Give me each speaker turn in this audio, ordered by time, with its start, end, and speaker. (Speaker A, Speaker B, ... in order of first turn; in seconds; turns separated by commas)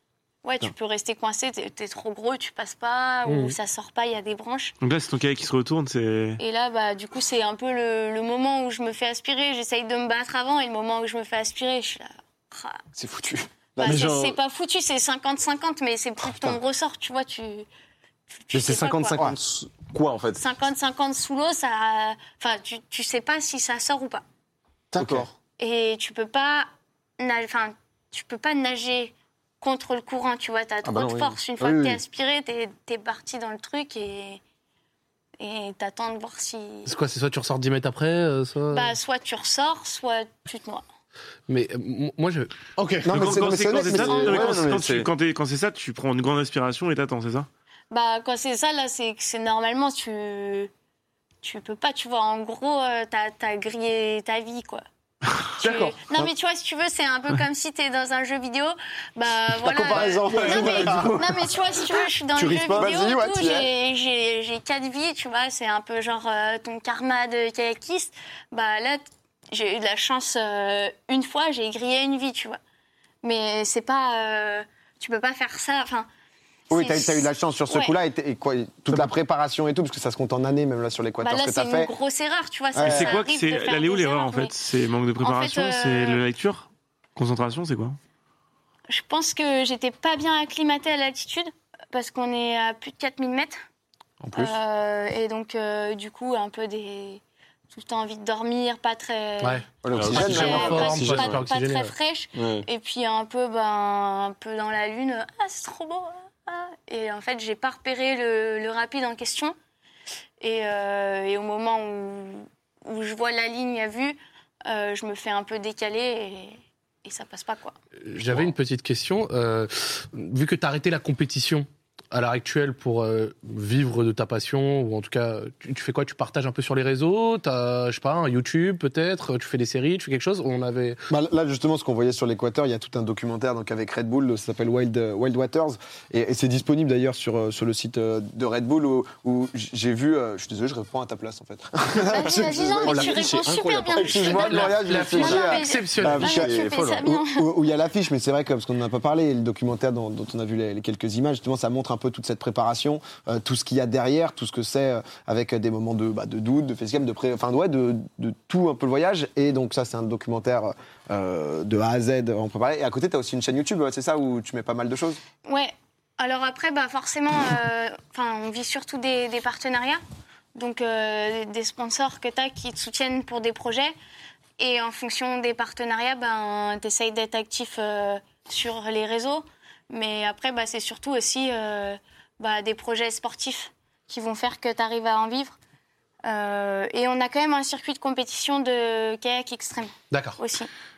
Speaker A: 0.4-4.8, Speaker B: 3.3-3.5, Speaker C: 4.8-6.4, Speaker A: 6.4-12.8, Speaker D: 12.9-14.0, Speaker A: 13.8-17.7, Speaker E: 13.8-14.4, Speaker A: 18.3-19.3, Speaker E: 18.5-20.4, Speaker A: 20.4-24.2, Speaker E: 24.9-25.3, Speaker D: 25.0-25.3, Speaker A: 25.6-34.4, Speaker E: 30.8-32.0, Speaker A: 35.4-37.0, Speaker B: 36.9-38.9, Speaker A: 38.7-40.9, Speaker B: 41.5-43.2, Speaker D: 43.0-45.0, Speaker C: 43.1-47.5, Speaker E: 43.8-45.1, Speaker A: 47.9-50.7, Speaker A: 51.4-54.8, Speaker A: 55.6-72.6, Speaker D: 55.6-56.3, Speaker D: 59.5-61.5, Speaker E: 60.3-61.1, Speaker D: 62.4-63.7, Speaker E: 62.5-62.9, Speaker A: 73.2-76.1, Speaker A: 76.7-78.0, Speaker D: 76.7-81.9, Speaker E: 78.9-79.2, Speaker A: 81.2-84.6, Speaker D: 82.7-83.2, Speaker C: 82.8-88.0, Speaker A: 85.2-86.2, Speaker A: 88.9-93.6, Speaker E: 94.2-94.5, Speaker A: 94.3-109.5, Speaker B: 99.4-101.9, Speaker D: 99.8-100.9, Speaker E: 99.9-101.4, Speaker E: 102.4-102.7, Speaker A: 110.4-117.8, Speaker B: 118.0-131.0, Speaker D: 131.1-143.4, Speaker A: 142.0-147.5, Speaker E: 142.8-145.1, Speaker D: 143.9-165.2, Speaker B: 144.3-146.2, Speaker E: 146.0-147.0, Speaker A: 165.4-170.0, Speaker A: 170.6-173.9, Speaker A: 174.6-185.6, Speaker A: 186.2-190.7, Speaker B: 190.1-190.4